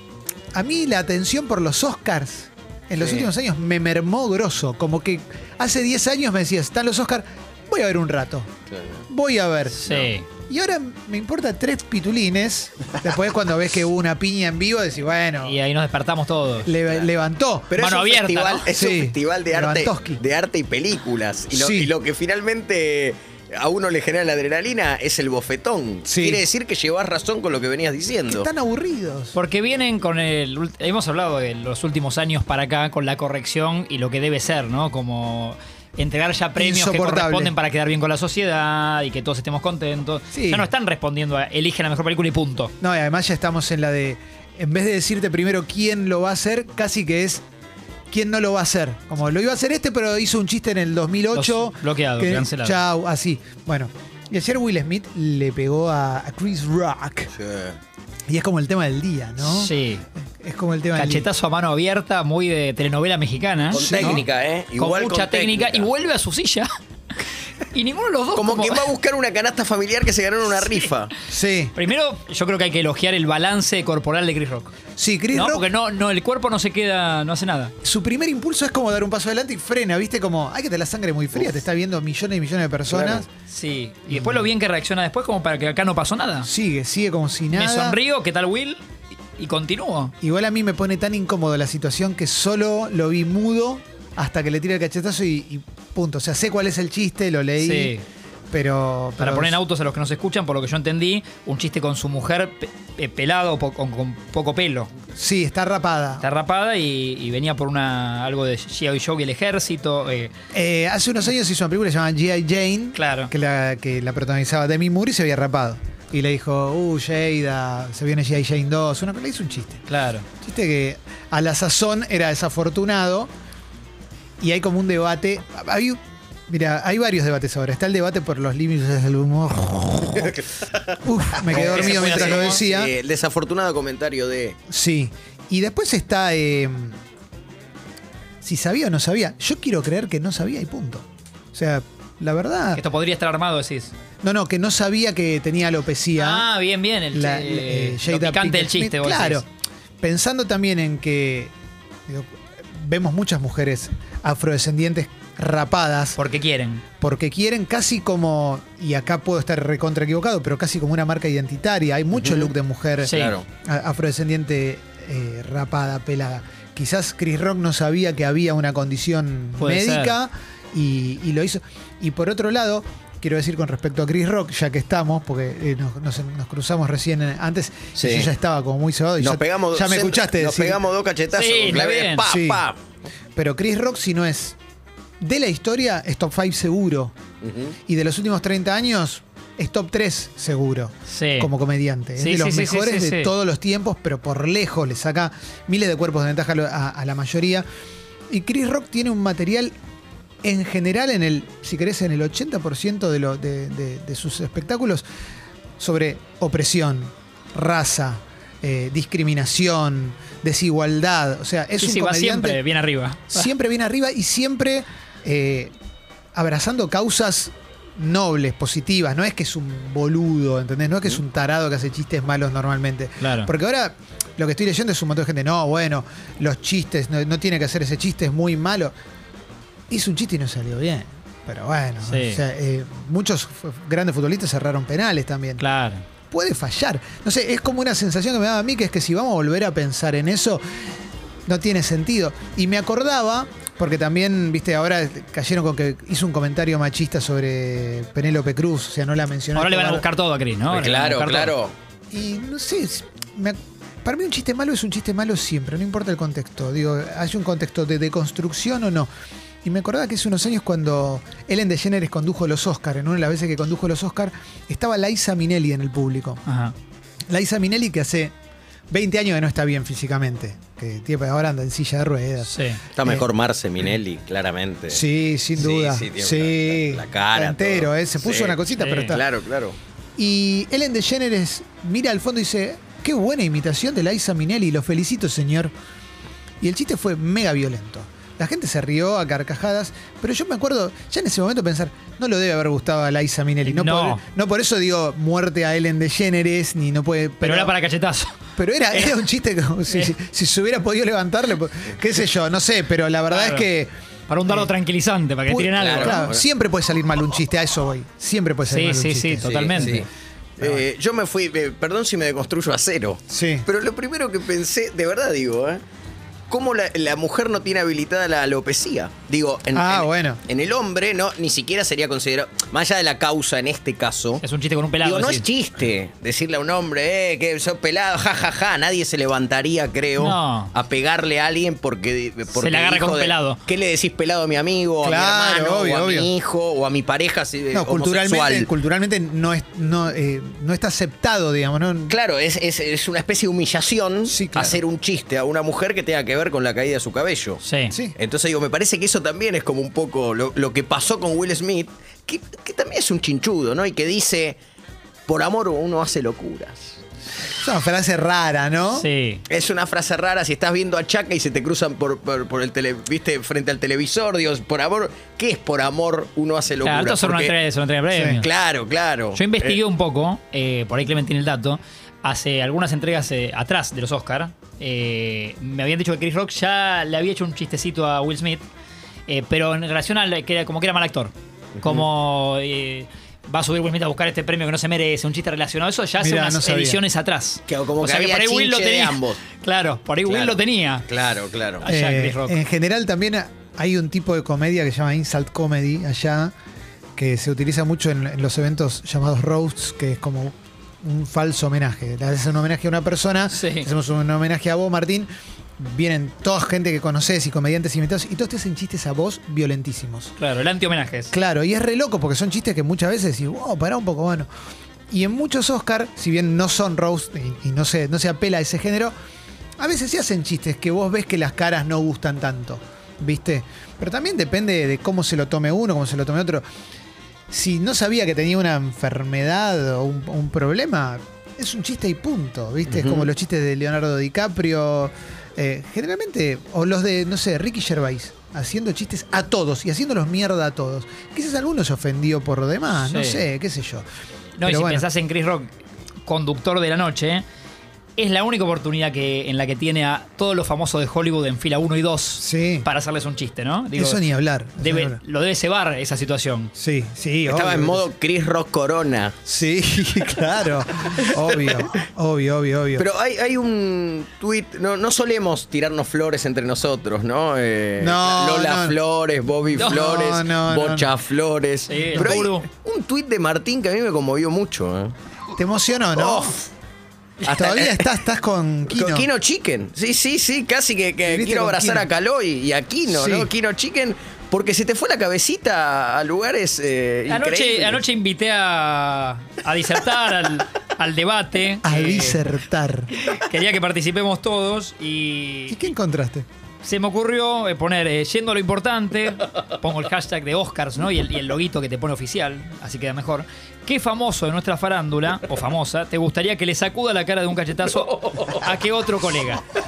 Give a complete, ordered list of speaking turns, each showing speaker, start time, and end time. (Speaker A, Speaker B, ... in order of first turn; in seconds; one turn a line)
Speaker A: 0.5-8.5
Speaker B: 3.0-3.3
Speaker B: 8.7-9.0
Speaker A: 9.1-9.9
Speaker C: 9.8-10.3
Speaker A: 10.5-15.6
Speaker C: 15.4-16.7
Speaker A: 16.7-17.8
Speaker B: 17.7-28.5
Speaker C: 17.8-18.6
Speaker A: 18.7-20.2
Speaker A: 21.5-21.9
Speaker A: 26.1-26.4
Speaker A: 28.3-29.4
Speaker C: 29.3-42.7
Speaker A: 36.6-37.5
Speaker A: 40.3-40.7
Speaker A: 42.8-47.4
Speaker A: 48.1-57.3
Speaker C: 51.3-52.8
Speaker B: 57.3-57.8
Speaker A: 58.3-59.7
Speaker C: 59.4-60.0
Speaker A: 60.2-61.3
Speaker C: 61.0-64.2
Speaker B: 63.7-65.9
Speaker A: 63.7-64.2
Speaker C: 64.8-66.7
Speaker C: 67.7-68.9
Speaker B: 68.4-71.1
Speaker C: 70.6-70.9
Speaker A: 71.3-71.7
Speaker C: 71.8-74.7
Speaker A: 75.0-75.7
Speaker C: 75.3-77.7
Speaker A: 77.8-83.3
Speaker B: 82.9-83.2
Speaker C: 83.5-86.5
Speaker A: 84.1-84.5
Speaker A: 86.5-88.0
Speaker C: 87.5-88.8
Speaker C: 89.4-90.1
Speaker A: 90.2-97.9
Speaker C: 97.6-98.0
Speaker A: 98.5-99.6
Speaker C: 99.2-104.9
Speaker A: 105.1-106.2
Speaker C: 106.2-110.3
Speaker A: 110.5-119.8
Speaker C: 113.0-113.3
Speaker C: 119.9-120.3
Speaker A: 120.4-123.3
Speaker A: 124.4-130.3
Speaker B: 130.2-134.6
Speaker A: 131.0-132.9
Speaker C: 131.5-132.6
Speaker A: 134.7-137.0
Speaker A: 138.4-142.8
Speaker C: 142.8-143.9
Speaker A: 144.2-146.5
Speaker C: 146.2-149.4
Speaker A: 147.1-149.5
Speaker A: 150.0-151.5
Speaker A: 152.1-156.2
Speaker C: 156.2-156.8
Speaker A: 157.0-180.8
Speaker B: 162.2-162.5
Speaker C: 163.0-163.3
Speaker B: 163.1-163.4
Speaker C: 169.6-170.2
Speaker B: 178.0-178.3
Speaker B: 179.2-182.8
Speaker C: 181.3-182.2
Speaker A: 182.3-182.6
Speaker A: 183.4-184.6
Speaker A: 185.2-187.1
Speaker B: 187.4-187.8
Speaker A: 187.9-197.7
Speaker C: 191.1-191.5
Speaker C: 192.2-193.3
Speaker A: 198.3-199.8
Speaker A: 200.4-205.0
Speaker A: 205.8-212.6
Speaker C: 211.8-213.5
Speaker A: 213.3-215.7
Speaker A: 216.3-228.9
Speaker C: 223.2-223.5
Speaker A: 229.9-235.6
Speaker C: 232.1-232.4
Speaker C: 235.6-236.0
Speaker A: 236.3-240.6
Speaker A: 241.5-250.0
Speaker C: 249.6-251.6
Speaker B: 250.7-251.7
Speaker A: 252.1-259.1
Speaker A: 259.6-266.4
Speaker C: 266.5-266.7
Speaker A: 267.3-268.3
Speaker A: 268.9-273.2
Speaker C: 272.5-272.8
Speaker B: 272.9-275.0
Speaker A: 274.9-279.2
Speaker B: 275.6-279.8
Speaker C: 278.8-279.1
Speaker A: 280.2-285.7
Speaker A: 286.6-297.7
Speaker C: 293.6-294.2
Speaker C: 297.4-298.3
Speaker A: 298.6-303.9
Speaker C: 303.3-303.7
Speaker C: 304.3-306.3
Speaker A: 305.5-310.1
Speaker B: 305.7-306.4
Speaker C: 308.7-310.1
Speaker B: 309.4-310.1
Speaker B: 310.6-315.8
Speaker A: 313.3-313.7
Speaker B: 316.5-324.4
Speaker A: 319.7-320.4
Speaker C: 324.4-325.5
Speaker B: 325.0-338.7
Speaker C: 330.2-330.7
Speaker C: 332.6-333.6
Speaker A: 335.0-336.3
Speaker A: 337.7-342.2
Speaker B: 342.1-347.6
Speaker A: 344.3-344.8
Speaker C: 347.6-347.9
Speaker A: 347.9-348.1
Speaker B: 348.2-354.6
Speaker B: 355.3-357.0
Speaker A: 357.6-359.1
Speaker C: 359.0-359.4
Speaker B: 359.5-367.5
Speaker C: 366.8-368.5
Speaker A: 368.1-368.4
Speaker B: 368.4-369.8
Speaker C: 369.4-378.6
Speaker C: 379.3-391.0
Speaker B: 381.8-382.1
Speaker A: 386.2-387.0
Speaker B: 387.7-389.4
Speaker B: 390.3-391.8
Speaker C: 391.8-392.6
Speaker A: 391.9-396.5
Speaker A: 397.2-410.3
Speaker C: 403.5-403.9
Speaker C: 410.4-411.3
Speaker A: 411.3-414.5
Speaker A: 415.1-419.1
Speaker A: 419.8-426.6
Speaker A: 427.5-444.1
Speaker B: 432.9-433.3
Speaker C: 443.1-443.4
Speaker C: 444.6-445.7
Speaker A: 444.6-445.1
Speaker C: 446.3-447.4
Speaker C: 448.2-454.2
Speaker A: 452.4-452.9
Speaker A: 453.9-455.2
Speaker C: 454.8-456.7
Speaker A: 456.8-458.0
Speaker B: 457.5-459.4
Speaker A: 459.5-463.1
Speaker B: 461.2-461.7
Speaker B: 463.0-475.1
Speaker A: 468.0-469.0
Speaker A: 469.8-471.1
Speaker C: 471.9-472.7
Speaker A: 472.1-472.5
Speaker A: 475.6-476.6
Speaker B: 476.1-476.7
Speaker B: 477.4-478.1
Speaker A: 477.5-479.3
Speaker B: 478.9-488.0
Speaker A: 481.3-482.1
Speaker A: 483.1-483.5
Speaker C: 487.3-492.4
Speaker A: 491.8-493.1
Speaker C: 493.2-495.9
Speaker A: 495.7-496.5
Speaker C: 496.8-509.6
Speaker B: 507.9-508.6